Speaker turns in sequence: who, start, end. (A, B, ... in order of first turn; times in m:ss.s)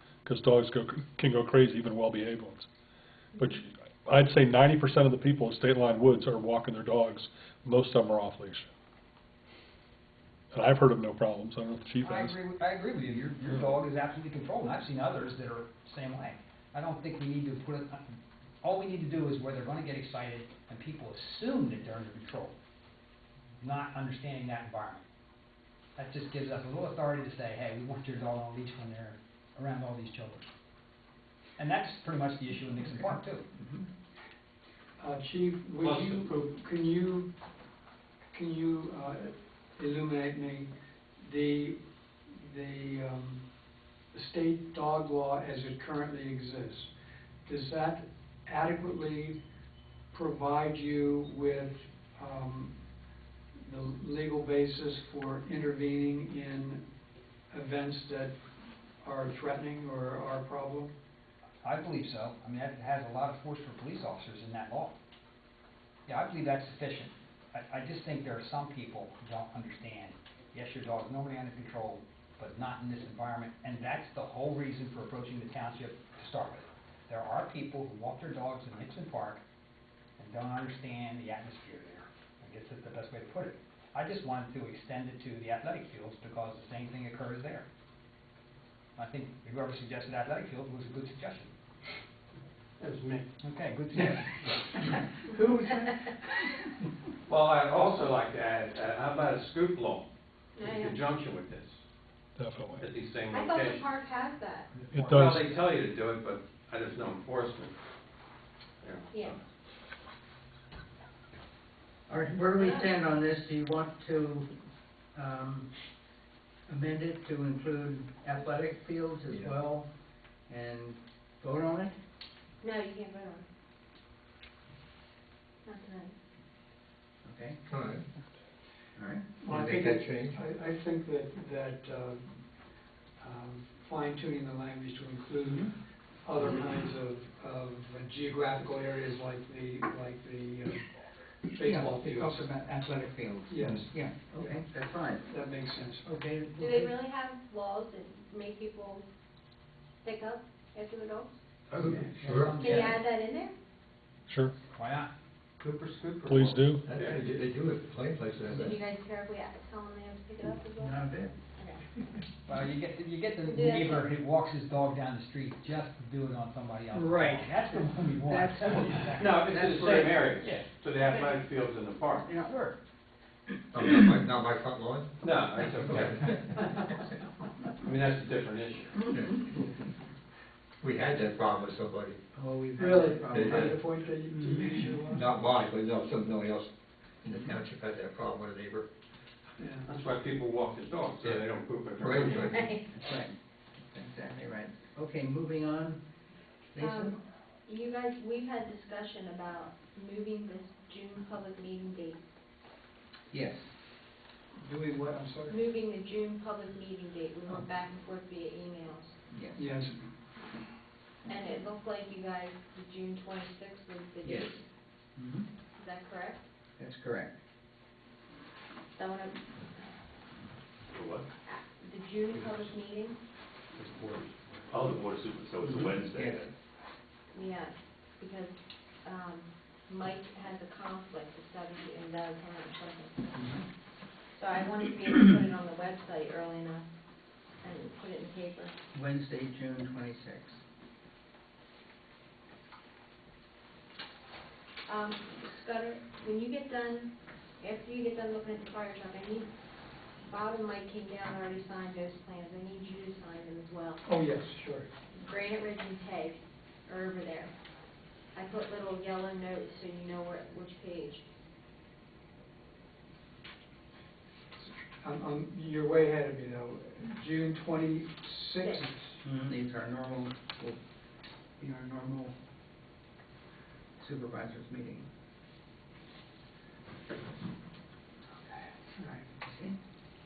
0:00.2-0:02.7 A
0:03.4-0:08.7 A
0:10.5-0:12.4 A
0:12.0-0:22.5 B
0:23.6-0:25.0 B
0:26.0-0:30.5 B
0:31.6-0:33.4 B
0:32.7-0:33.9 C
0:35.0-0:37.3 D
0:35.8-0:36.3 E
0:38.3-0:41.8 D
0:42.3-0:43.4 D
0:44.1-0:46.9 D
0:47.4-0:49.4 D
0:50.1-0:52.7 D
0:53.6-0:56.8 D
0:57.5-0:58.3 D
0:59.0-1:00.9 D
1:01.6-1:04.9 B
1:06.0-1:19.4 B
1:20.2-1:27.7 B
1:29.0-1:31.5 B
1:32.8-1:33.2 E
1:33.4-1:35.0 B
1:34.8-1:36.0 C
1:37.3-1:41.8 E
1:40.6-1:41.0 F
1:42.4-1:42.9 A
1:42.8-1:43.8 E
1:43.3-1:44.7 F
1:44.8-1:45.3 B
1:44.9-1:45.5 A
1:45.0-1:47.7 E
1:48.8-1:49.4 E
1:49.1-1:49.4 F
1:52.1-1:54.5 C
1:52.5-1:52.9 F
1:55.1-1:55.7 C
1:56.7-1:59.9 C
1:59.3-1:59.5 G
2:00.5-2:01.9 C
2:02.6-2:03.4 F
2:05.6-2:06.1 F
2:07.2-2:07.6 C
2:07.6-2:08.0 G
2:09.0-2:09.4 C
2:09.4-2:12.3 D
2:09.5-2:10.4 G
2:13.2-2:15.7 D
2:15.4-2:15.7 C
2:16.2-2:20.8 D
2:21.5-2:22.4 D
2:21.6-2:25.2 C
2:23.5-2:24.6 D
2:25.3-2:26.1 D
2:26.0-2:26.9 C
2:26.6-2:29.0 F
2:30.0-2:31.4 F
2:31.7-2:32.3 E
2:31.8-2:32.5 G
2:31.9-2:32.1 C
2:32.2-2:33.0 B
2:32.6-2:33.5 F
2:34.3-2:34.5 A
2:34.6-2:35.1 B
2:35.6-2:37.2 E
2:36.3-2:36.8 A
2:36.8-2:38.8 G
2:38.5-2:41.9 F
2:40.8-2:41.3 C
2:42.5-2:49.4 B
2:43.4-2:44.1 F
2:47.0-2:47.3 D
2:47.0-2:50.3 C
2:49.2-2:52.3 E
2:52.3-2:52.8 B
2:53.7-2:55.1 G
2:55.2-2:56.7 E
2:57.8-2:59.1 E
2:59.2-2:59.4 G
3:00.8-3:02.2 G
3:02.4-3:03.8 C
3:02.8-3:05.2 D
3:03.3-3:03.8 G
3:04.3-3:05.0 C
3:05.1-3:06.7 G
3:07.2-3:08.9 G
3:07.3-3:07.6 C
3:09.6-3:09.9 D
3:09.8-3:12.7 E
3:12.0-3:12.6 G
3:12.4-3:12.8 F
3:12.9-3:16.0 C
3:16.7-3:17.2 C
3:16.8-3:22.3 F
3:23.3-3:23.7 C
3:24.6-3:25.6 D
3:25.5-3:29.2 F
3:29.3-3:29.7 C
3:29.6-3:30.1 D
3:31.3-3:34.7 F
3:34.2-3:34.6 C
3:35.2-3:35.5 C
3:35.8-3:36.4 F
3:36.8-3:37.4 C
3:39.0-3:39.5 F
3:40.9-3:41.3 H
3:41.4-3:43.2 F
3:43.8-3:46.5 H
3:45.7-3:46.5 C
3:47.3-3:53.3 F
3:53.3-3:53.7 C
3:54.3-3:56.9 F
3:57.6-3:58.7 F
3:58.9-4:00.6 C
4:04.9-4:09.5 F
4:10.3-4:14.0 F
4:14.0-4:14.9 D
4:15.1-4:17.5 F
4:18.3-4:21.2 F
4:24.6-4:29.2 D
4:29.2-4:30.8 C
4:31.6-4:32.4 C
4:34.0-4:35.1 C
4:39.0-4:39.8 C